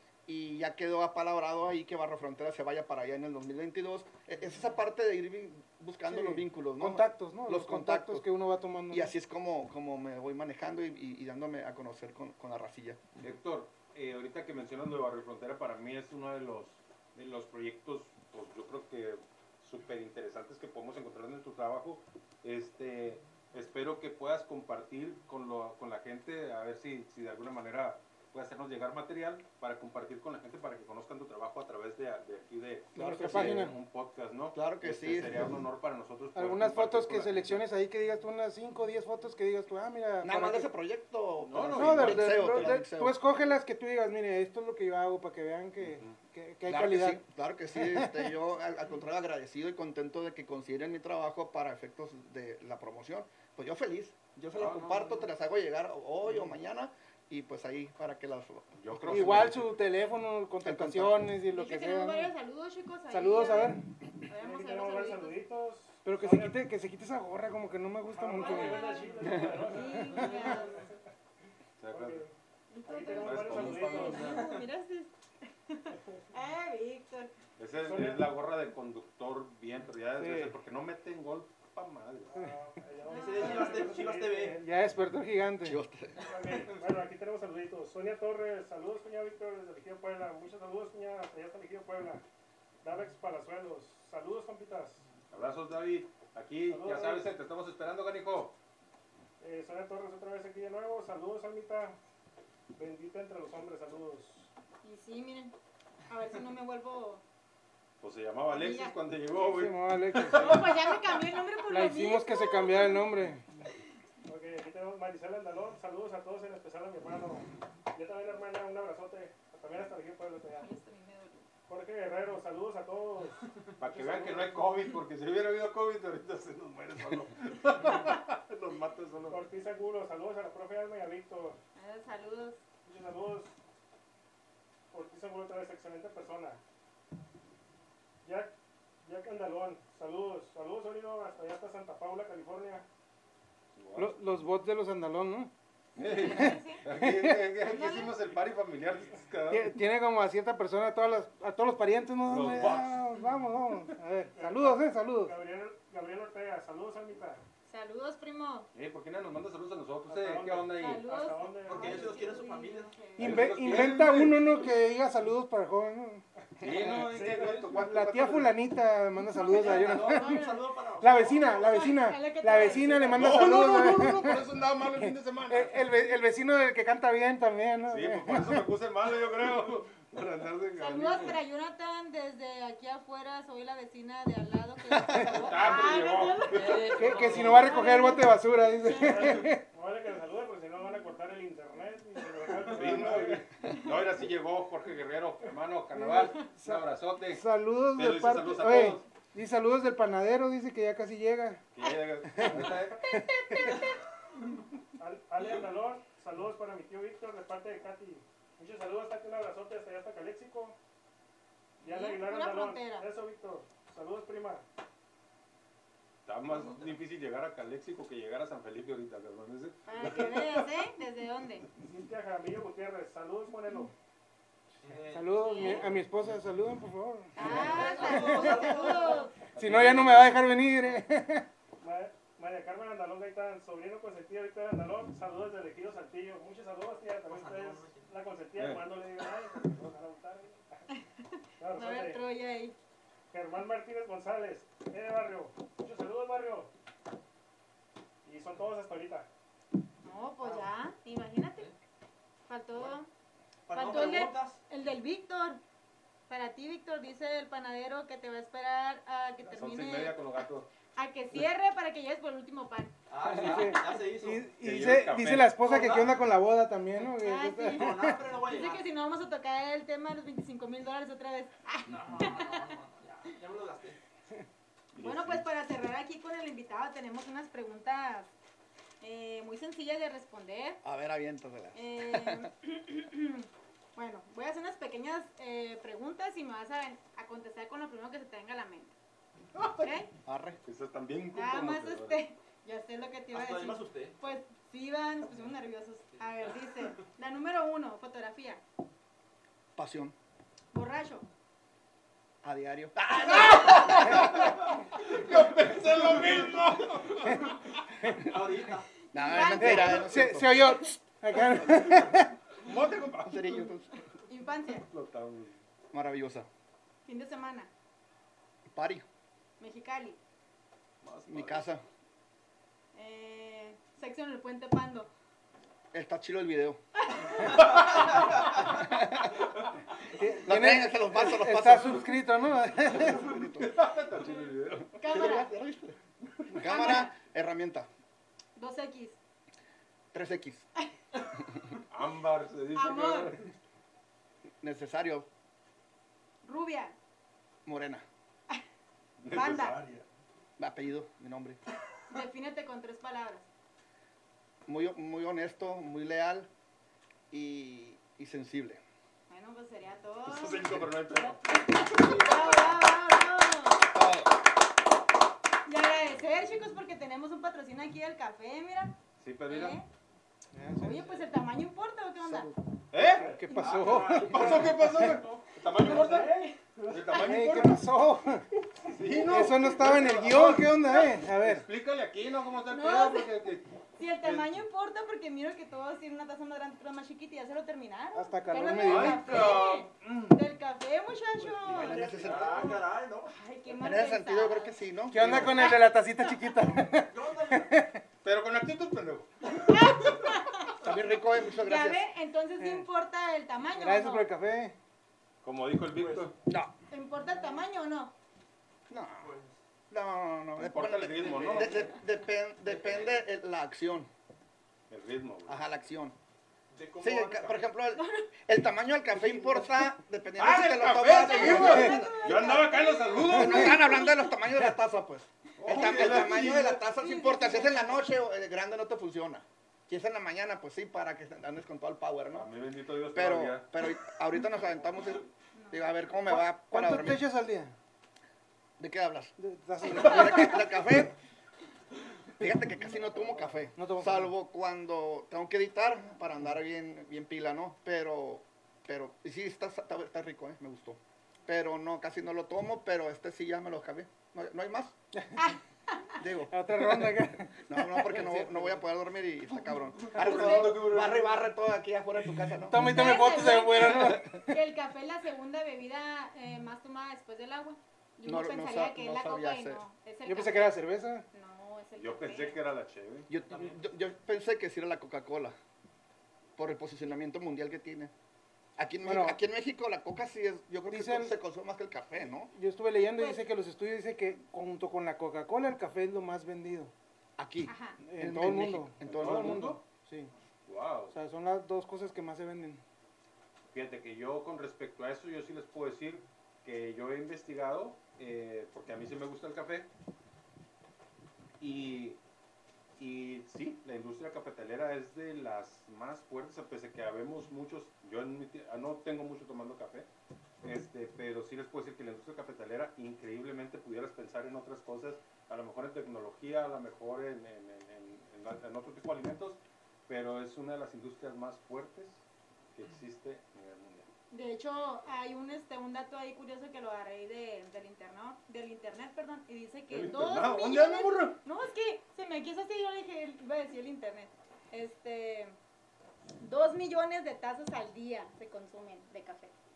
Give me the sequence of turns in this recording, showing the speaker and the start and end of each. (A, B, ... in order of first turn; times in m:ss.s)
0:00.3-0:08.3 A
0:06.1-0:09.1 B
0:08.9-0:13.1 A
0:13.2-0:37.6 C
0:32.9-0:33.8 B
0:33.0-0:33.7 A
0:34.5-0:35.6 A
0:36.3-0:40.7 B
0:40.2-0:43.2 A
0:41.4-0:42.6 C
0:41.7-0:47.2 B
0:45.8-0:46.1 C
0:46.7-0:59.5 A
0:47.7-0:48.3 B
0:54.5-0:55.2 C
0:58.8-0:59.6 C
0:59.1-1:02.3 B
1:00.6-1:01.3 A
1:01.5-1:05.4 D
1:03.1-1:03.8 B
1:04.3-1:06.6 E
1:06.0-1:08.9 B
1:08.1-1:10.9 E
1:08.4-1:10.8 D
1:11.8-1:12.3 C
1:11.9-1:12.3 E
1:12.7-1:17.3 D
1:12.8-1:14.4 E
1:13.0-1:14.4 C
1:14.2-1:14.6 F
1:17.6-1:22.4 C
1:17.8-1:18.3 E
1:20.2-1:20.6 B
1:22.3-1:24.6 E
1:23.1-1:24.0 D
1:23.1-1:24.6 F
1:24.5-1:25.8 B
1:25.6-1:26.2 A
1:26.2-1:32.2 E
1:26.3-1:26.8 F
1:32.8-1:35.0 E
1:35.3-1:38.6 C
1:36.7-1:37.3 E
1:39.4-1:42.0 E
1:42.7-1:44.5 E
1:44.8-1:45.5 D
1:46.1-1:47.2 D
1:48.0-1:51.2 C
1:48.5-1:49.0 D
1:49.4-1:50.6 B
1:50.3-1:53.0 D
1:51.7-1:53.5 B
1:54.2-2:00.7 E
2:00.6-2:01.5 D
2:01.7-2:03.4 E
2:03.8-2:09.5 C
2:03.9-2:04.6 E
2:09.3-2:11.6 E
2:11.8-2:12.6 D
2:12.8-2:13.5 E
2:14.9-2:16.6 E
2:18.2-2:18.5 E
2:19.0-2:22.8 E
2:23.8-2:24.1 C
2:24.0-2:25.5 B
2:26.0-2:29.7 C
2:26.0-2:26.8 D
2:26.3-2:27.4 B
2:27.6-2:28.2 D
2:29.5-2:35.3 B
2:32.2-2:33.0 C
2:34.4-2:37.4 E
2:37.7-2:38.7 D
2:38.7-2:41.0 C
2:40.1-2:42.3 E
2:40.8-2:43.5 D
2:41.7-2:43.0 F
2:43.2-2:47.2 B
2:43.2-2:44.4 C
2:46.6-2:48.5 C
2:47.1-2:47.7 E
2:47.3-2:47.6 F
2:47.7-2:50.4 B
2:49.3-2:51.9 F
2:49.8-2:50.6 D
2:51.0-2:54.4 B
2:51.5-2:53.3 D
2:52.5-2:52.8 F
2:53.1-2:55.8 C
2:54.9-2:58.6 B
2:57.9-3:01.4 C
3:00.8-3:09.3 D
3:04.9-3:05.4 A
3:05.2-3:07.7 C
3:06.6-3:07.8 F
3:07.0-3:09.6 B
3:08.9-3:13.5 E
3:12.7-3:17.4 C
3:15.9-3:21.6 B
3:17.9-3:19.0 C
3:21.7-3:23.1 C
3:22.4-3:23.7 B
3:23.5-3:23.8 D
3:25.0-3:30.8 E
3:31.8-3:34.6 E
3:31.8-3:33.1 D
3:36.2-3:40.6 C
3:39.8-3:41.7 D
3:41.7-3:43.9 E
3:44.8-3:45.9 F
3:45.1-3:48.9 B
3:45.4-3:45.8 D
3:47.4-3:49.3 D
3:47.4-3:49.3 F
3:49.5-3:50.4 C
3:49.6-3:51.5 B
3:51.8-4:00.8 E
3:57.3-3:58.1 F
3:58.6-3:58.9 C
4:00.9-4:02.7 D
4:01.6-4:02.2 E
4:03.3-4:06.7 E
4:08.2-4:09.3 E
4:10.0-4:11.7 D
4:10.4-4:10.7 F
4:12.5-4:13.1 D
4:13.7-4:14.6 F
4:13.7-4:15.6 D
4:16.3-4:20.1 D
4:19.4-4:20.7 C
4:21.0-4:22.9 D
4:23.1-4:24.5 F
4:23.2-4:28.2 B
4:24.6-4:25.5 C
4:25.6-4:26.1 F
4:27.1-4:32.7 D
4:27.7-4:28.9 F
4:31.8-4:34.0 F
4:34.9-4:35.4 C
4:35.0-4:38.3 D
4:39.0-4:40.8 D
4:40.8-4:42.5 A
4:41.7-4:48.9 D
4:49.5-4:50.0 C
4:49.8-4:50.1 D
4:50.2-4:50.6 A
4:50.6-4:52.2 C
4:51.3-4:58.6 D
4:53.3-4:54.2 F
4:56.2-4:57.0 F
4:59.8-5:00.2 A
5:00.7-5:01.3 D
5:02.4-5:04.4 A
5:03.1-5:07.8 C
5:03.3-5:04.4 D
5:08.1-5:08.9 F
5:09.1-5:10.6 A
5:09.1-5:10.4 D
5:09.6-5:12.4 B
5:12.6-5:13.6 C
5:13.2-5:13.9 A
5:14.2-5:14.8 D
5:14.7-5:15.6 C
5:15.9-5:16.5 A
5:17.0-5:17.7 D
5:18.7-5:19.0 A
5:19.6-5:20.2 D
5:21.0-5:21.6 C
5:21.3-5:21.8 A
5:22.9-5:25.1 D
5:25.9-5:26.8 A
5:27.0-5:28.3 D
5:28.6-5:29.4 A
5:30.1-5:33.2 B
5:30.4-5:32.1 A
5:32.8-5:33.7 A
5:33.3-5:34.9 C
5:34.9-5:35.5 D
5:34.9-5:36.0 A
5:36.5-5:37.9 A
5:36.6-5:37.1 D
5:38.6-5:39.2 D
5:40.1-5:40.7 A
5:41.9-5:43.5 C
5:42.7-5:43.4 D
5:44.6-5:45.3 A
5:46.4-5:47.0 D
5:47.6-5:48.0 A
5:49.2-5:50.0 C
5:49.3-5:49.8 D
5:50.6-5:51.6 A
5:52.1-5:53.5 D
5:54.6-5:56.5 A
5:57.3-5:58.8 A
5:59.3-6:03.8 D
6:00.2-6:02.2 C
6:02.0-6:02.7 A
6:03.9-6:04.3 A
6:05.7-6:09.0 D
6:09.2-6:09.8 C
6:09.5-6:09.9 D
6:10.5-6:11.0 B
6:10.8-6:12.5 D
6:10.9-6:11.2 F
6:12.2-6:12.5 A
6:12.9-6:13.3 C
6:13.2-6:15.2 B
6:13.3-6:15.4 F
6:13.5-6:13.8 D
6:14.1-6:16.3 C
6:15.8-6:16.3 E
6:16.0-6:16.6 D
6:16.9-6:17.8 C
6:17.1-6:17.6 D
6:17.1-6:18.5 B
6:18.8-6:23.7 C
6:19.2-6:21.6 B
6:22.7-6:23.4 D
6:24.0-6:32.0 D
6:24.2-6:24.6 C
6:28.1-6:29.3 B
6:28.8-6:30.4 C
6:31.5-6:32.8 E
6:31.6-6:32.6 A
6:31.9-6:33.4 F
6:33.3-6:34.7 D
6:33.8-6:35.7 A
6:35.1-6:38.0 B
6:35.2-6:35.4 C
6:35.5-6:35.8 D
6:36.6-6:37.7 F
6:38.2-6:40.0 C
6:39.6-6:40.8 D
6:40.8-6:42.1 A
6:41.5-6:44.3 D
6:42.6-6:42.9 B
6:43.8-6:44.7 B
6:45.4-6:46.3 C
6:45.9-6:46.3 F
6:46.5-6:46.7 A
6:46.9-6:48.1 D
6:48.9-6:49.3 A
6:49.2-6:49.6 F
6:49.9-6:54.1 A
6:50.6-6:51.8 C
6:51.2-6:51.9 F
6:52.6-6:53.2 F
6:54.9-6:55.6 C
6:55.5-6:56.2 A
6:56.7-6:57.6 F
6:57.0-7:02.7 A
6:58.0-6:58.3 D
7:00.4-7:03.9 C
7:01.2-7:04.3 D
7:01.4-7:01.9 B
7:03.2-7:12.5 A
7:05.6-7:06.8 C
7:06.9-7:08.1 D
7:12.3-7:13.6 C
7:13.1-7:17.2 A
7:15.5-7:16.1 D
7:16.3-7:17.8 B
7:18.8-7:19.3 A
7:19.4-7:20.9 B
7:19.9-7:21.1 A
7:22.4-7:34.9 A
7:23.8-7:24.3 B
7:35.2-7:35.4 B
7:35.4-7:36.2 D
7:36.2-7:42.8 A
7:36.5-7:38.8 B
7:40.1-7:41.4 C
7:40.2-7:40.8 D
7:42.6-7:44.3 B
7:42.8-7:50.8 D
7:44.1-7:44.4 A
7:48.2-7:49.8 A
7:50.2-7:51.2 B
7:51.3-7:52.6 D
7:52.0-7:53.3 C
7:53.3-7:55.6 A
7:53.5-7:53.8 F
7:56.6-7:58.1 A
7:58.8-8:02.5 A
7:59.0-7:59.4 B
8:00.9-8:01.4 B
8:02.5-8:06.9 B
8:03.2-8:03.4 D
8:07.4-8:09.7 A
8:07.6-8:08.0 D
8:08.0-8:10.3 B
8:09.0-8:09.8 C
8:10.6-8:11.2 C
8:11.1-8:12.8 B
8:13.7-8:19.9 C
8:21.6-8:22.2 C
8:23.0-8:30.1 C
8:30.6-8:42.2 C
8:42.7-8:44.1 C
8:44.3-8:55.5 D
8:49.9-8:51.4 C
8:56.4-8:59.5 D